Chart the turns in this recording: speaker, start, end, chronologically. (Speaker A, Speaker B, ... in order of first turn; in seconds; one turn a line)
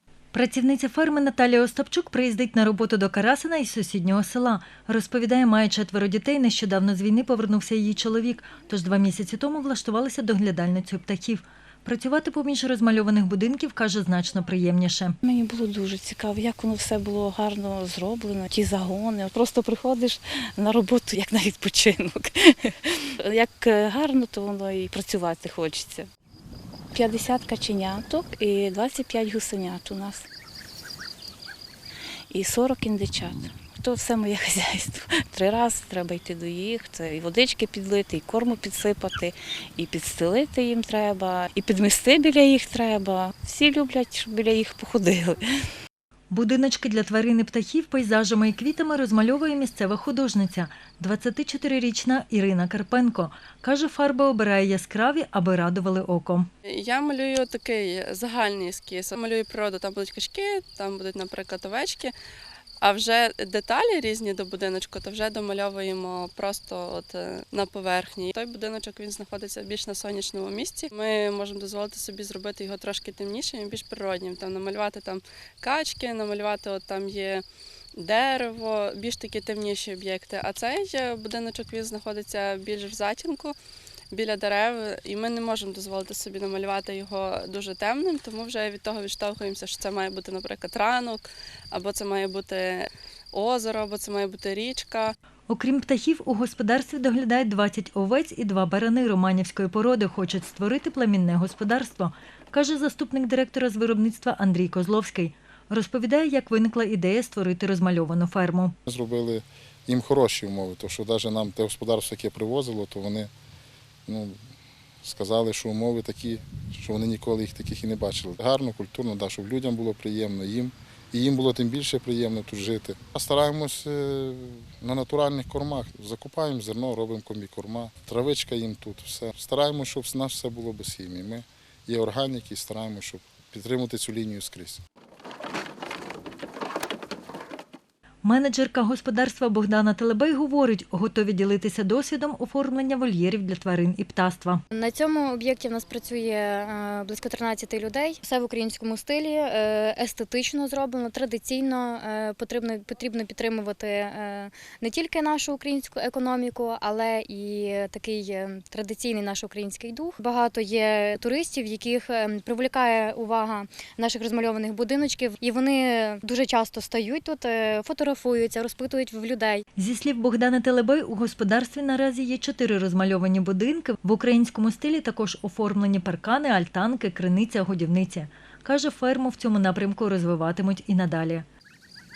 Speaker A: 0.3-15.2
Speaker B: 15.2-26.1
Speaker B: 26.9-30.3
Speaker B: 32.3-45.6
Speaker A: 46.3-56.5
Speaker C: 56.6-62.1
Speaker C: 62.8-77.4
Speaker C: 78.0-83.5
Speaker C: 84.1-95.1
Speaker A: 95.5-108.7
Speaker D: 108.8-113.3
Speaker D: 114.1-114.4
Speaker D: 115.0-134.8
Speaker A: 138.2-144.6
Speaker E: 144.7-169.6
Speaker A: 169.8-181.4